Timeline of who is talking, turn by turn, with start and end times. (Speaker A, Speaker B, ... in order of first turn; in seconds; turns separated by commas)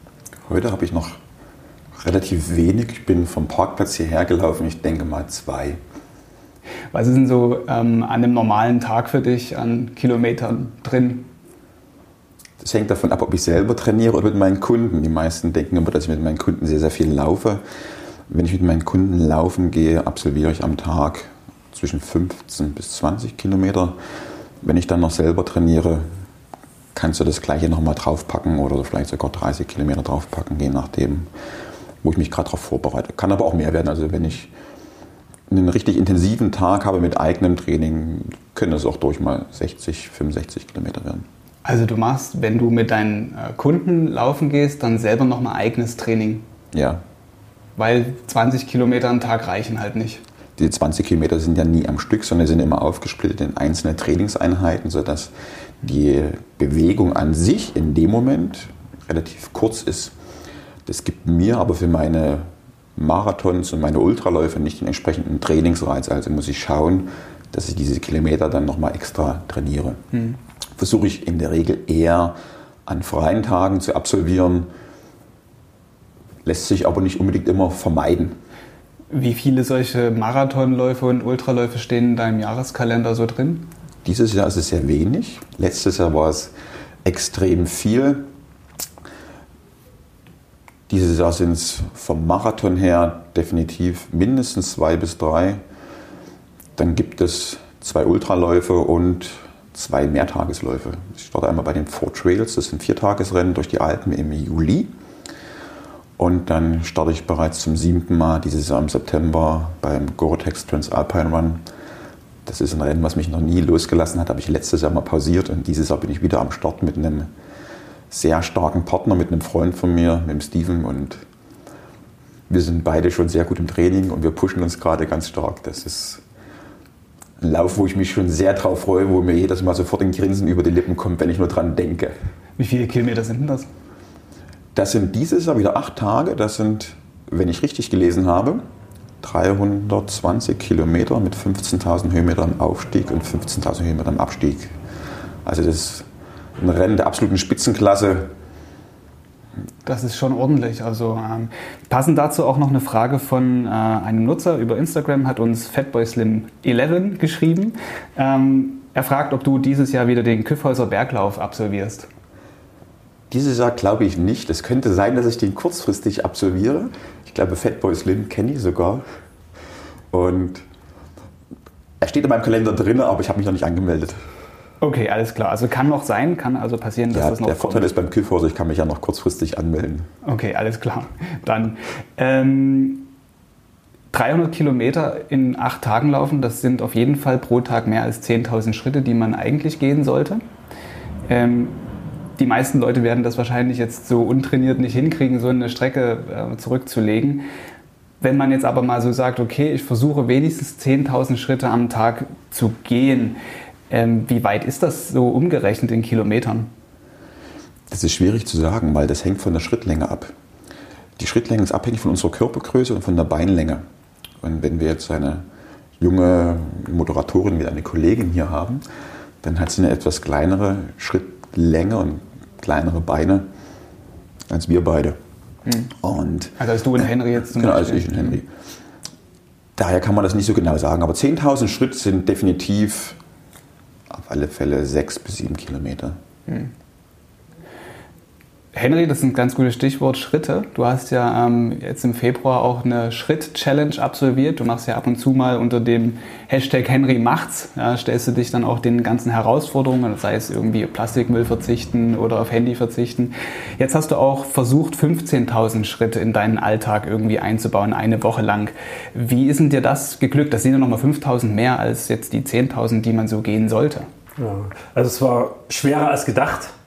Speaker A: 0.5-1.2, Speaker A: 2.0-5.8, Speaker B: 6.9-11.3, Speaker A: 12.6-17.6, Speaker A: 18.3-24.0, Speaker A: 24.6-26.1, Speaker A: 26.9-31.3, Speaker A: 32.0-34.5, Speaker A: 35.5-41.3, Speaker B: 41.6-46.5, Speaker A: 46.7-47.0, Speaker B: 47.8-50.2, Speaker A: 50.6-55.3, Speaker A: 55.8-60.1, Speaker A: 60.9-70.0, Speaker A: 70.8-74.7, Speaker A: 76.4-78.4, Speaker B: 79.1-83.7, Speaker A: 84.0-86.5, Speaker A: 87.0-88.3, Speaker A: 90.9-95.6, Speaker A: 96.8-104.9, Speaker A: 106.2-111.6, Speaker A: 112.5-117.3, Speaker A: 118.1-121.2, Speaker A: 122.5-126.2, Speaker A: 127.4-132.1, Speaker B: 132.6-133.7, Speaker A: 134.7-138.6, Speaker A: 139.2-144.7, Speaker A: 145.4-148.3, Speaker B: 149.9-162.1, Speaker A: 163.3-169.0, Speaker A: 170.1-170.6, Speaker A: 172.0-174.2, Speaker B: 174.8-177.9, Speaker A: 177.1-180.1, Speaker B: 180.2-183.1, Speaker B: 184.1-190.4, Speaker B: 191.3-191.8, Speaker B: 192.4-197.4, Speaker B: 198.2-203.4, Speaker B: 203.9-206.7, Speaker A: 207.9-210.3, Speaker A: 211.2-213.8, Speaker A: 214.4-215.4, Speaker A: 216.0-218.8, Speaker A: 219.4-223.5, Speaker A: 224.5-225.2, Speaker B: 225.7-225.9, Speaker A: 225.9-228.5, Speaker B: 226.6-228.4, Speaker A: 229.8-233.2, Speaker A: 234.1-236.2, Speaker B: 238.7-264.1, Speaker C: 264.4-266.7